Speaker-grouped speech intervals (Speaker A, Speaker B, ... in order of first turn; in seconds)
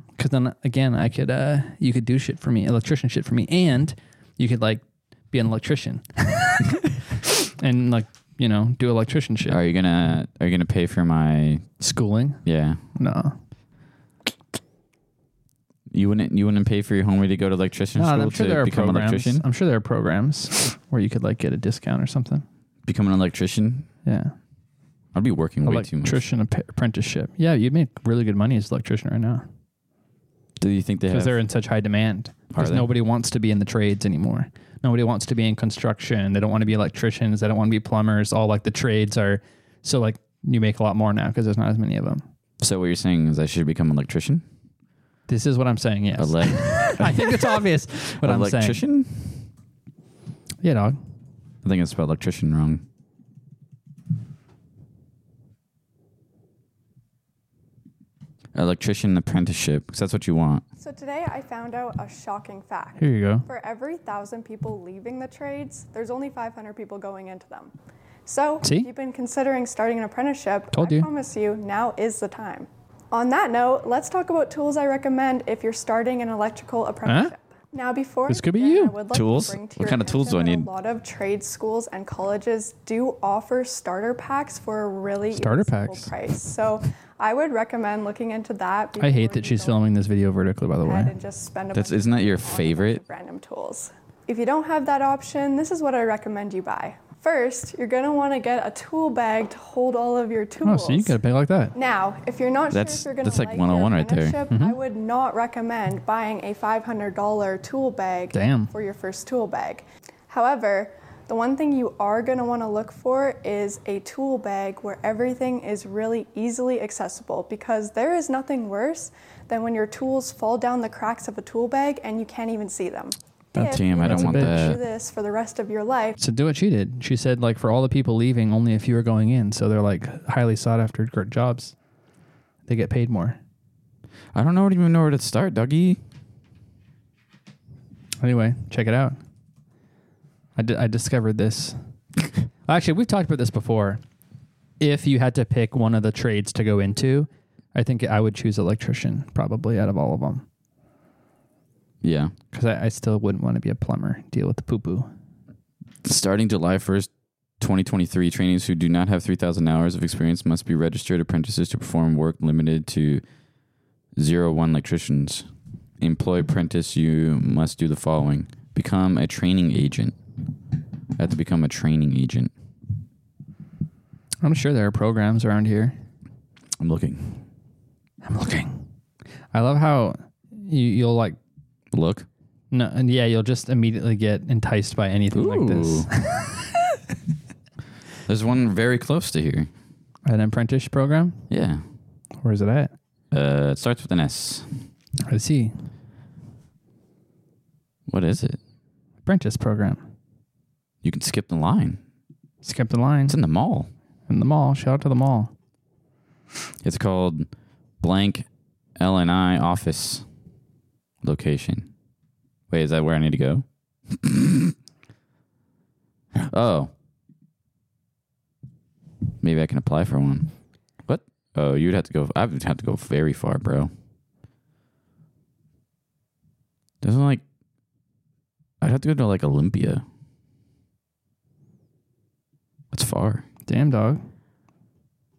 Speaker A: 0.2-6.6, 7.6-9.6, 11.8-12.4, 12.9-13.4, 17.9-22.4, 24.0-24.3, 25.6-29.4, 31.1-42.2, 45.3-48.8, 50.6-51.0, 63.0-63.5, 68.6-68.9, 70.7-71.1, 77.0-77.3, 78.3-79.0, 85.3-86.1, 89.0-91.1, 100.6-101.7, 104.5-104.8, 108.3-108.7, 123.5-124.7, 126.2-131.7, 132.7-133.4, 138.2-139.2, 140.6-141.8, 142.7-144.0, 144.8-150.4, 152.5-155.1, 174.4-175.9, 178.2-178.8, 179.5-181.4, 182.7-186.6, 190.2-191.4, 192.4-192.9, 195.3-195.7, 199.2-200.0, 202.6-203.3, 204.3-205.5, 233.7-234.2
Speaker B: 9.5-11.7, 12.4-12.8, 15.9-19.4, 22.9-23.9, 25.1-26.2, 30.6-31.4, 32.5-32.9, 42.6-44.4, 46.2-49.5, 51.6-52.8, 58.5-60.6, 79.1-80.7, 91.7-93.0, 102.7-104.4, 123.6-124.8, 134.3-136.0, 152.0-152.3, 156.0-163.2, 164.2-165.5, 166.0-170.1, 171.2-172.5, 176.8-177.4, 181.9-182.3, 185.3-186.1, 188.3-189.7, 191.5-191.8, 193.3-194.7, 198.1-198.6, 201.0-202.0, 203.3-203.9, 206.8-207.5, 208.0-208.4, 209.0-210.2, 211.2-211.9, 212.7-214.7, 216.4-216.9, 219.4-220.5, 221.0-223.9, 227.0-227.4, 228.8-230.0, 232.9-233.4
Speaker C: 60.8-67.7, 68.2-89.8, 90.8-101.2, 101.7-126.2